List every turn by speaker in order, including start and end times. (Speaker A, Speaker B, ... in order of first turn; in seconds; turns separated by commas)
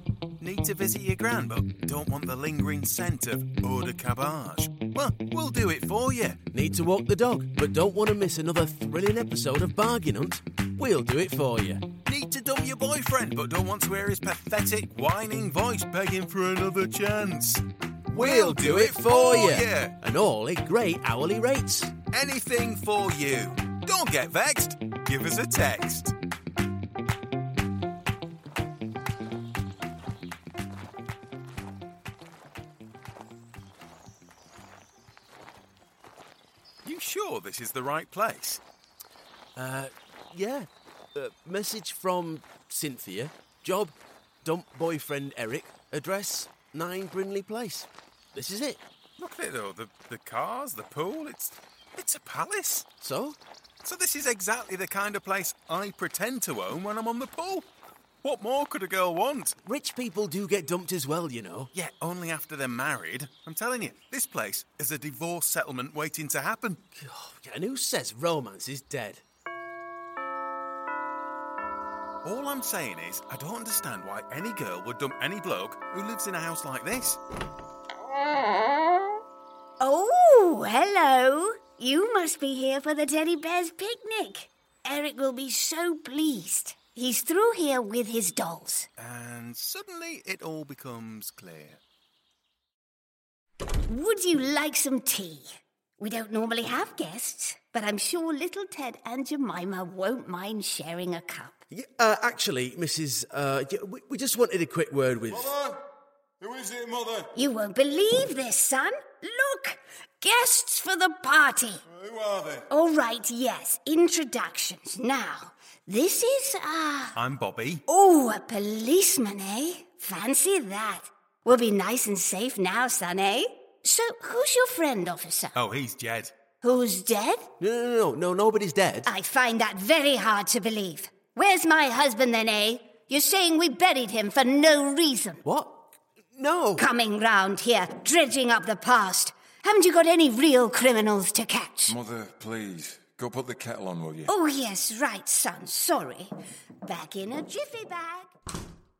Speaker A: 0.4-6.4, Speaker B: 6.5-11.9, Speaker A: 12.0-19.9, Speaker B: 18.1-21.9, Speaker A: 22.1-26.1, Speaker A: 36.8-38.6, Speaker B: 39.5-48.8, Speaker A: 49.2-52.8, Speaker B: 53.0-53.4, Speaker A: 53.8-57.7, Speaker A: 58.2-59.5, Speaker B: 59.6-61.7, Speaker A: 61.7-66.8, Speaker B: 67.0-69.2, Speaker A: 72.2-77.2, Speaker C: 79.8-88.9, Speaker A: 89.0-91.8, Speaker C: 93.9-95.5, Speaker C: 96.0-101.6, Speaker B: 101.7-105.5, Speaker D: 105.3-105.8, Speaker D: 106.4-107.3, Speaker C: 107.3-111.8, Speaker D: 111.9-112.6, Speaker C: 112.7-117.2, Speaker A: 117.1-117.8, Speaker C: 117.9-125.5, Speaker A: 125.5-126.3, Speaker C: 126.6-127.5, Speaker B: 127.6-129.1, Speaker C: 129.1-135.4, Speaker B: 135.4-136.9, Speaker C: 136.8-141.9, Speaker D: 141.9-144.3, Speaker C: 144.2-146.3, Speaker C: 146.8-148.3